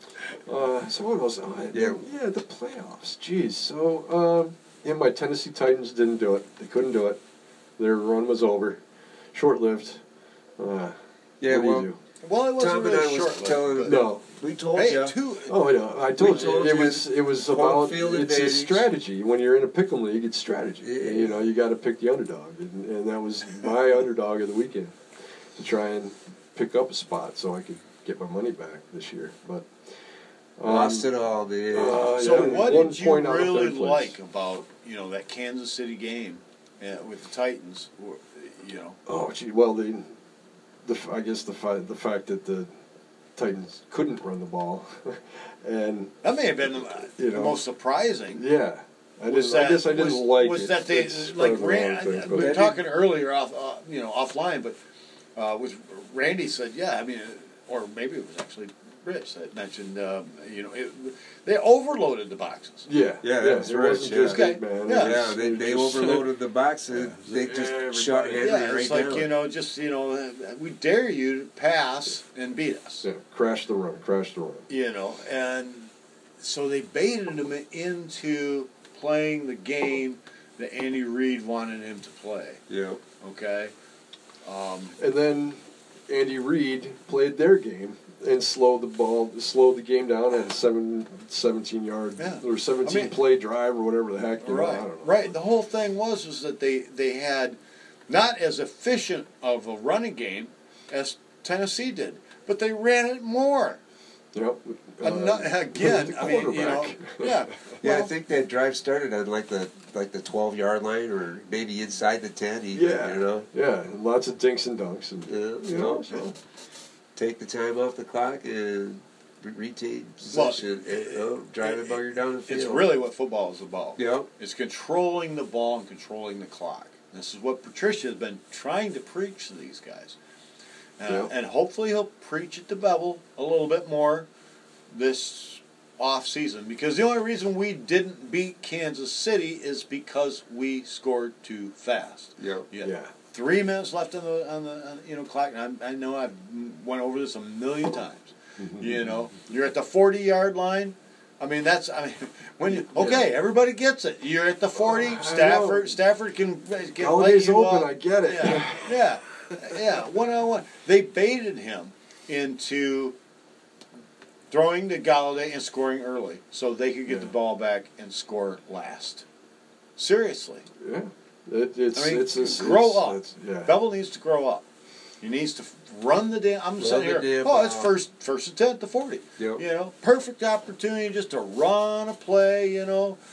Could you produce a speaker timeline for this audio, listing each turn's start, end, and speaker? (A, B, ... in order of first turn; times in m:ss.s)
0:00.4-0:07.2 A
0:01.7-0:02.0 B
0:07.8-0:08.8 A
0:09.3-0:10.0 A
0:10.6-0:12.0 A
0:11.4-0:11.9 B
0:12.2-0:14.0 C
0:12.6-0:15.1 B
0:13.8-0:14.2 A
0:14.7-0:15.6 C
0:15.5-0:25.0 A
0:16.2-0:18.9 B
0:20.8-0:21.4 B
0:25.6-0:29.7 A
0:30.6-0:31.1 A
0:30.6-0:32.7 B
0:31.7-0:34.1 A
0:32.0-0:39.0 C
0:39.0-0:40.1 A
0:40.8-0:42.7 A
0:43.4-0:46.1 A
0:46.2-0:48.4 C
0:46.7-0:47.6 A
0:48.3-0:52.6 A
0:49.3-0:54.8 C
0:52.3-0:52.8 B
0:55.4-1:02.8 C
1:02.8-1:06.3 A
1:03.2-1:09.3 B
1:04.0-1:05.2 C
1:06.9-1:08.6 A
1:08.4-1:13.0 C
1:13.0-1:14.7 A
1:14.7-1:22.6 C
1:22.7-1:23.0 B
1:23.2-1:23.7 C
1:24.4-1:25.0 C
1:25.0-1:35.3 A
1:32.2-1:33.1 C
1:34.4-1:37.6 C
1:38.1-1:43.8 C
1:44.3-1:47.3 A
1:45.0-1:48.1 C
1:47.8-1:53.5 B
1:52.7-1:56.3 A
1:55.3-1:56.2 B
1:57.2-2:02.9 B
2:00.3-2:10.2 C
2:04.0-2:04.3 B
2:11.0-2:14.3 C
2:11.0-2:11.3 A
2:14.9-2:43.1 C
2:22.4-2:22.7 B
2:22.8-2:23.1 A
2:28.6-2:29.0 A
2:32.9-2:33.3 A
2:34.8-2:35.9 A
2:37.0-2:39.0 A
2:44.5-2:49.2 C
2:47.1-2:47.3 A
2:50.0-2:50.6 C
2:50.8-2:53.7 A
2:51.9-2:54.6 C
2:55.2-3:03.2 C
2:56.8-2:57.9 B
2:59.4-2:59.6 B